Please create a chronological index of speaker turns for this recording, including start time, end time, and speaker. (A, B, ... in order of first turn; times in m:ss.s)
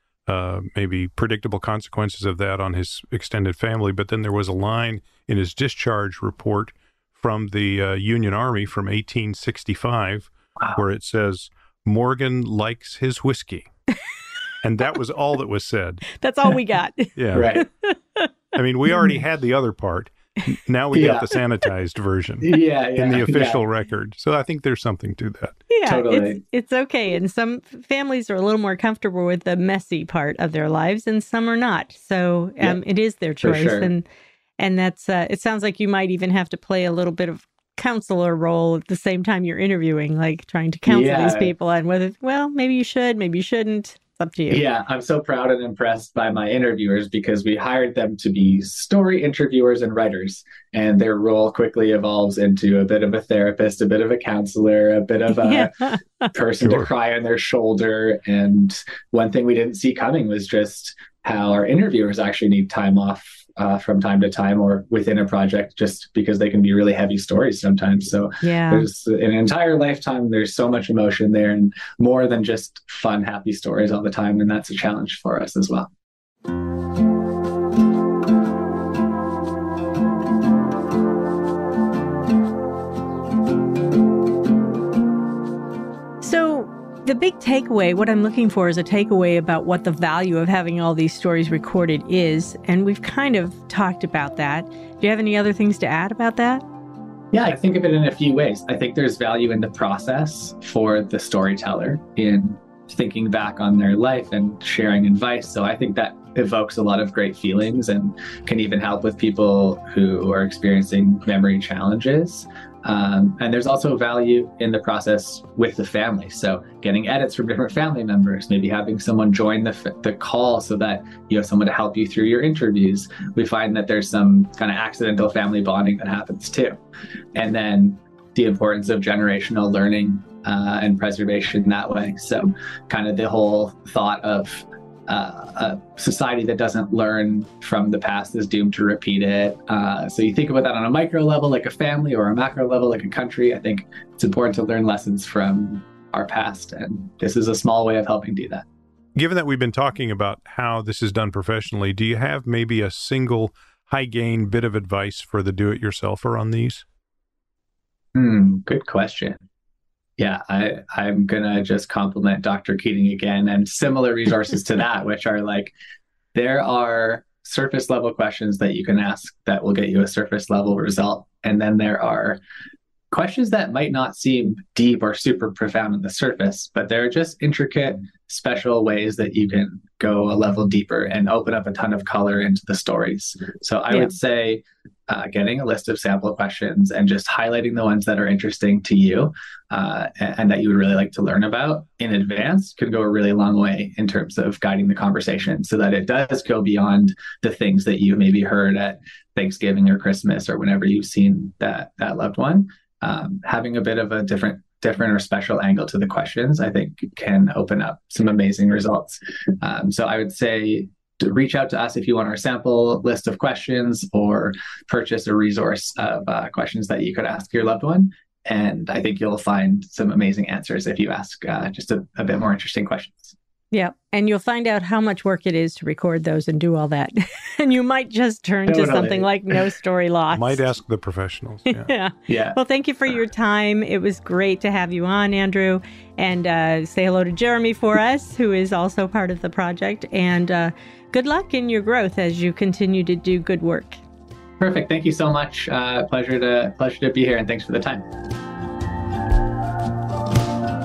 0:00.3-0:13.7 A
0:14.6-0:16.0 A
0:16.1-0:18.3 B
0:17.2-0:17.6 A
0:17.3-0:17.6 C
0:18.5-0:25.6 A
0:20.9-0:21.4 C
0:22.4-0:23.6 C
0:25.7-0:34.0 B
0:25.8-0:26.4 C
0:33.4-0:33.9 C
0:34.6-0:44.6 B
0:40.9-0:41.5 C
0:44.5-0:55.7 C
0:55.4-0:56.3 B
0:56.3-1:15.9 C
0:56.6-0:56.9 A
1:08.4-1:08.8 B
1:26.2-1:36.6 B
1:37.3-2:06.8 C
2:07.3-2:28.6 C
2:29.2-2:36.8 A
2:38.1-2:39.4 C
2:40.2-2:45.7 C
2:46.3-2:52.4 C
2:53.1-3:43.4 C
3:03.9-3:04.2 B
3:43.7-3:50.6 B
3:48.7-3:49.3 C
3:50.3-3:51.9 A
3:51.7-4:04.0 B
3:52.3-3:52.6 C
4:04.6-4:08.0 C